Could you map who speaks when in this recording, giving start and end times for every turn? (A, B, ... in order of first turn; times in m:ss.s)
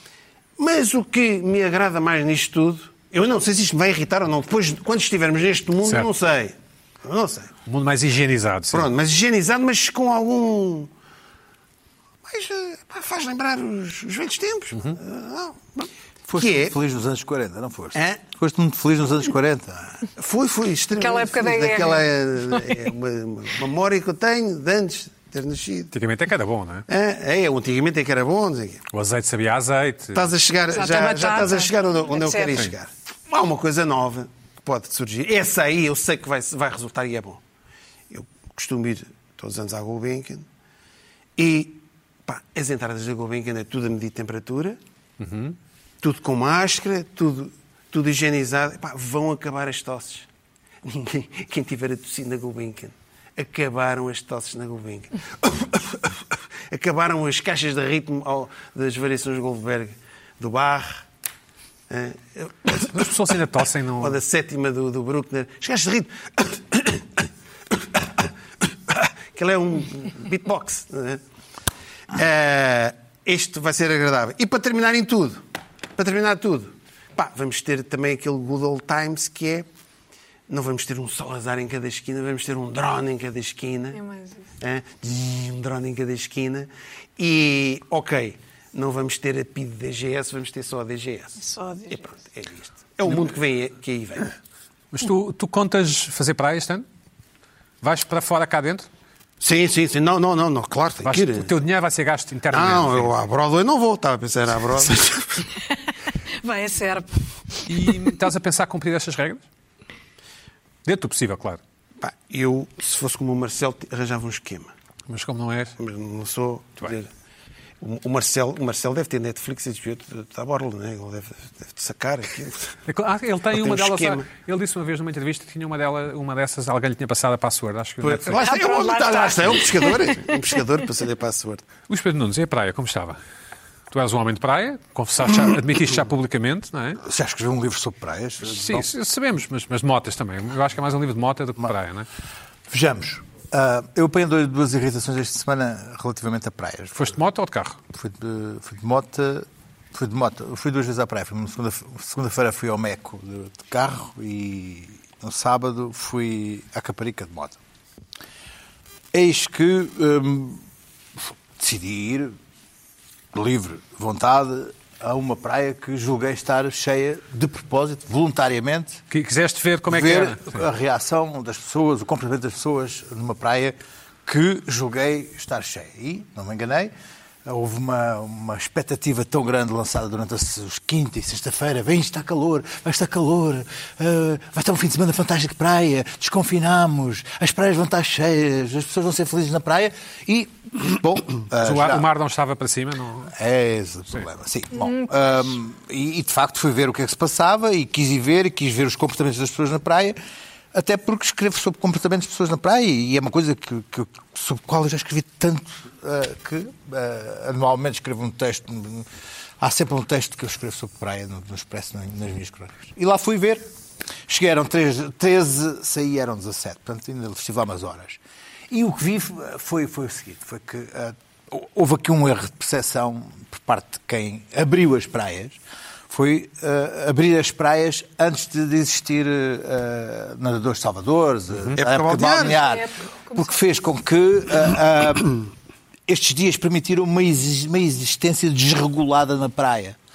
0:00.6-0:07.5 A
0:07.7-0:08.9 B
0:08.7-0:10.9 A
0:12.3-0:16.8 A
0:16.3-0:20.0 C
0:17.9-0:18.2 A
0:20.2-0:25.9 A
0:21.0-0:22.7 D
0:25.9-0:26.8 B
0:26.9-0:28.8 A
0:28.9-0:30.3 B
0:30.2-0:37.4 A
0:30.7-0:32.7 D
0:38.1-0:40.5 A
0:41.4-0:44.8 A
0:45.2-0:45.6 B
0:46.0-0:50.3 A
0:50.8-1:01.0 A
1:01.9-1:03.1 A
1:02.9-1:04.2 B
1:04.0-1:08.3 A
1:08.9-1:11.2 A
1:12.1-1:15.4 A
1:16.0-1:19.7 A
1:20.5-1:24.0 A
1:24.0-1:24.4 D
1:24.6-1:34.3 A
1:31.4-1:32.0 D
1:34.9-1:36.9 B
1:37.8-1:38.9 B
1:39.4-1:41.5 A
1:41.0-1:43.1 B
1:42.5-1:45.5 A
1:46.4-1:47.2 D
1:47.7-1:49.4 B
1:50.8-1:51.6 B
1:52.0-1:54.7 A
1:55.1-1:55.8 B
1:55.8-1:57.1 A
1:57.8-2:02.8 A
2:02.9-2:08.4 B
2:03.5-2:04.3 A
2:08.0-2:11.7 A
2:08.4-2:10.3 D
2:11.9-2:13.2 B
2:13.9-2:17.0 B
2:17.0-2:18.9 C
2:18.4-2:22.1 B
2:22.7-2:27.1 C
2:27.0-2:27.8 B
2:27.9-2:37.6 C
2:39.1-2:40.6 C
2:41.6-2:42.4 C
2:43.3-2:49.0 C
2:49.1-2:50.6 B
2:49.9-2:56.9 C
2:57.4-3:12.1 C
3:11.6-3:13.3 B
3:13.3-3:20.2 C
3:14.8-3:15.1 D
3:20.7-3:29.1 C
3:29.6-3:33.6 C
3:34.3-3:38.2 C
3:38.7-3:45.6 C
3:46.1-3:55.5 C
3:51.6-3:51.8 B
3:51.8-3:52.6 A
3:52.4-3:53.6 D
3:56.1-4:00.0 C